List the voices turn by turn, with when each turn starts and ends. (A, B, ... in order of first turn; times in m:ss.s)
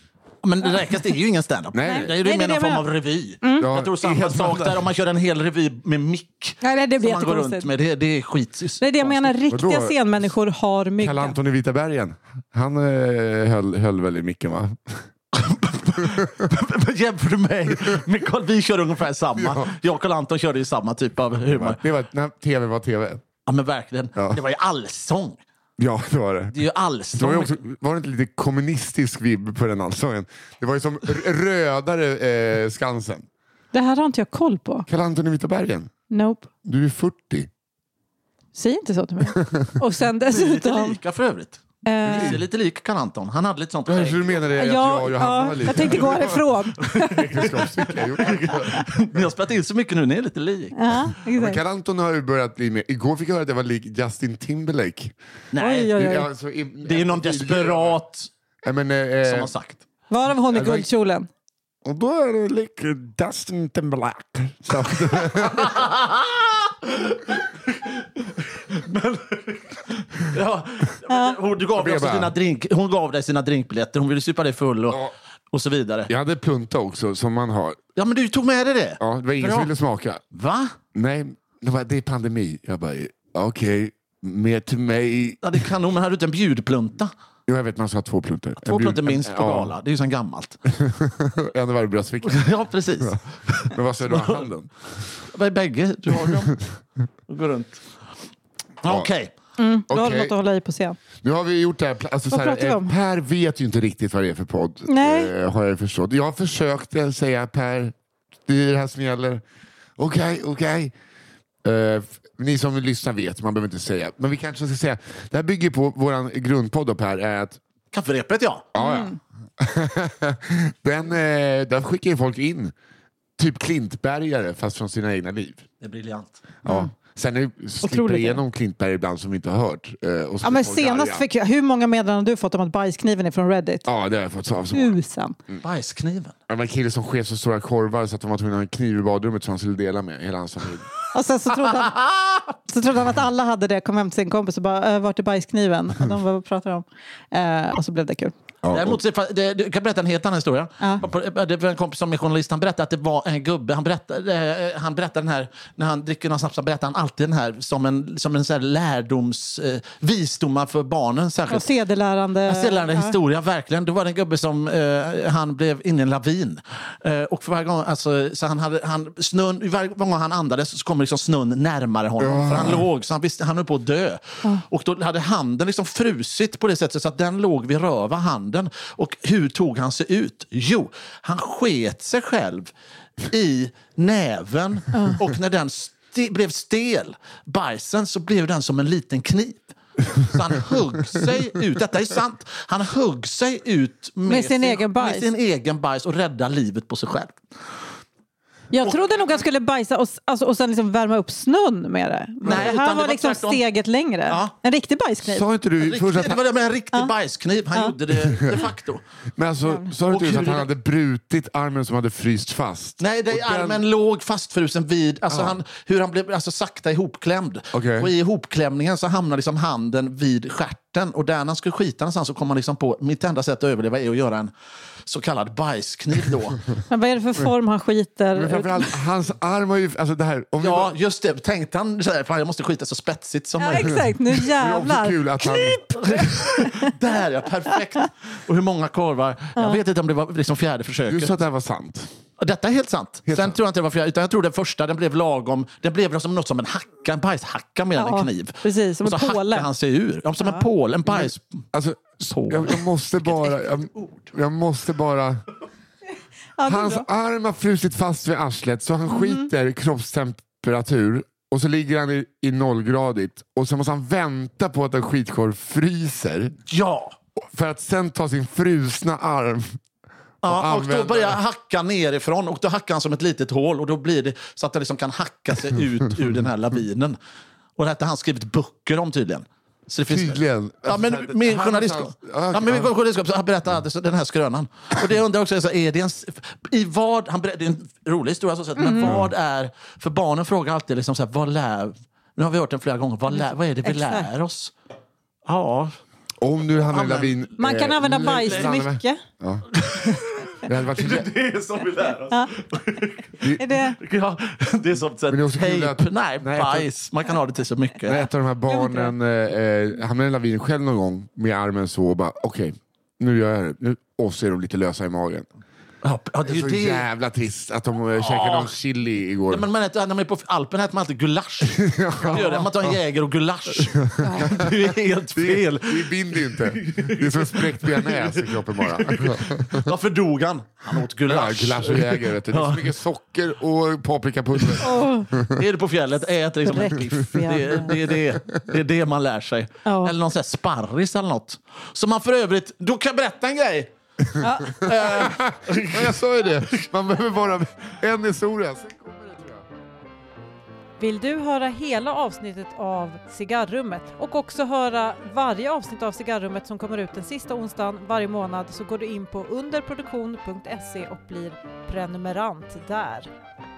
0:00.4-0:09.4 A
0:01.7-0:02.1 B
0:01.8-0:02.8 C
0:03.4-0:03.7 C
0:03.6-0:04.8 B
0:06.6-0:07.7 C
0:08.8-0:11.4 C
0:09.5-0:10.0 B
0:11.0-0:15.0 B
0:15.3-0:21.8 A
0:19.4-0:19.7 B
0:21.4-0:23.2 B
0:23.5-0:25.4 A
0:25.8-0:33.2 B
0:26.5-0:27.6 A
0:33.7-0:34.9 C
0:34.9-0:35.9 B
0:36.1-0:36.5 C
0:36.6-0:37.5 B
0:38.5-0:41.0 C
0:40.3-0:44.5 A
0:41.8-0:42.4 C
0:42.0-0:42.4 B
0:43.9-0:49.2 B
0:44.5-0:47.7 C
0:45.7-0:46.1 A
0:46.9-0:50.7 A
0:50.7-0:51.6 C
0:51.2-0:55.1 B
0:55.5-0:56.0 A
0:55.6-0:56.3 C
0:55.9-0:58.0 B
0:56.8-0:58.3 A
0:58.6-0:59.5 B
0:59.2-0:59.8 A
1:00.1-1:01.3 C
1:00.5-1:00.9 B
1:01.8-1:05.8 B
1:05.2-1:16.1 A
1:11.1-1:11.4 C
1:11.8-1:12.3 B
1:16.1-1:17.8 B
1:18.0-1:19.7 A
1:19.0-1:20.2 B
1:20.3-1:20.7 A
1:20.9-1:25.5 B
1:25.4-1:27.1 A
1:27.5-1:29.7 B
1:28.6-1:30.6 A
1:30.7-1:34.9 B
1:32.3-1:34.5 A
1:35.3-1:36.6 A
1:36.2-1:36.6 B
1:37.3-1:37.8 A
1:38.8-1:39.3 A
1:39.6-1:41.0 C
1:39.9-1:40.4 B
1:41.2-1:47.9 B
1:42.3-1:42.9 C
1:44.9-1:45.3 C
1:48.4-1:49.4 B
1:50.0-1:50.9 B
1:51.6-1:57.6 B
1:57.9-1:58.6 A
1:58.7-2:02.7 B
1:58.8-1:59.2 C
2:03.4-2:05.6 B
2:05.8-2:06.4 A
2:06.6-2:11.2 B
2:06.6-2:06.9 C
2:07.8-2:08.4 C
2:10.4-2:13.9 C
2:13.8-2:15.0 B
2:14.7-2:15.4 C
2:15.6-2:16.3 A
2:16.5-2:20.9 B
2:21.1-2:22.0 C
2:21.7-2:22.5 A
2:22.6-2:28.3 C
2:28.6-2:29.0 B
2:28.7-2:41.7 A
2:41.5-2:43.1 C
2:42.4-3:02.7 A
2:52.2-2:52.8 B
3:03.3-3:17.4 A
3:04.9-3:05.2 C
3:14.2-3:15.3 C
3:18.7-3:25.4 C
3:18.8-3:19.3 A
3:22.4-3:23.6 A
3:22.4-3:22.7 B
3:24.3-3:24.5 A
3:25.2-3:26.4 B
3:25.8-3:29.0 A
3:29.4-3:33.8 B
3:30.1-3:30.7 A
3:33.0-3:44.5 A
3:35.3-3:35.6 B
3:37.7-3:38.1 B
3:45.0-3:46.6 A
3:46.9-3:48.9 C
3:48.3-3:50.9 B
3:50.6-3:54.0 A
3:53.6-3:55.8 C
3:53.8-3:55.9 B
3:55.6-4:01.4 A
4:01.1-4:02.1 B
4:02.4-4:11.6 A
4:03.3-4:03.6 B
4:07.9-4:09.7 C
4:10.4-4:10.6 C
4:11.0-4:15.4 B
4:12.1-4:14.3 A
4:16.6-4:17.0 C
4:16.6-4:26.5 B
4:19.1-4:19.5 C
4:26.7-4:27.1 A
4:27.4-4:29.6 B
4:30.4-4:37.2 A
4:30.4-4:31.4 B
4:37.8-4:54.7 A
4:40.1-4:42.9 B
4:48.8-4:49.2 C
4:49.0-4:49.3 B
4:53.3-4:54.3 C
4:55.4-4:55.9 A
4:56.4-4:59.7 B
4:56.8-4:57.5 A
4:57.6-4:59.2 C
4:58.2-4:58.8 A
4:59.8-5:08.2 A
5:00.6-5:01.3 B
5:03.4-5:04.0 C
5:05.3-5:06.9 B
5:08.0-5:15.4 B
5:08.6-5:09.1 C
5:16.0-5:17.1 A
5:16.4-5:19.7 B
5:18.2-5:18.8 A
5:19.5-5:33.0 A
5:21.7-5:23.0 B
5:23.9-5:24.5 B
5:24.2-5:24.5 C
5:25.3-5:29.8 B
5:31.2-5:35.6 B
5:34.6-5:34.9 A
5:34.8-5:35.3 C
5:35.5-5:43.9 A
5:36.6-5:37.9 C
5:37.3-5:38.2 B
5:39.8-5:40.1 C
5:44.3-5:49.6 B
5:44.4-5:44.9 C
5:44.6-5:46.6 A
5:51.0-6:03.3 C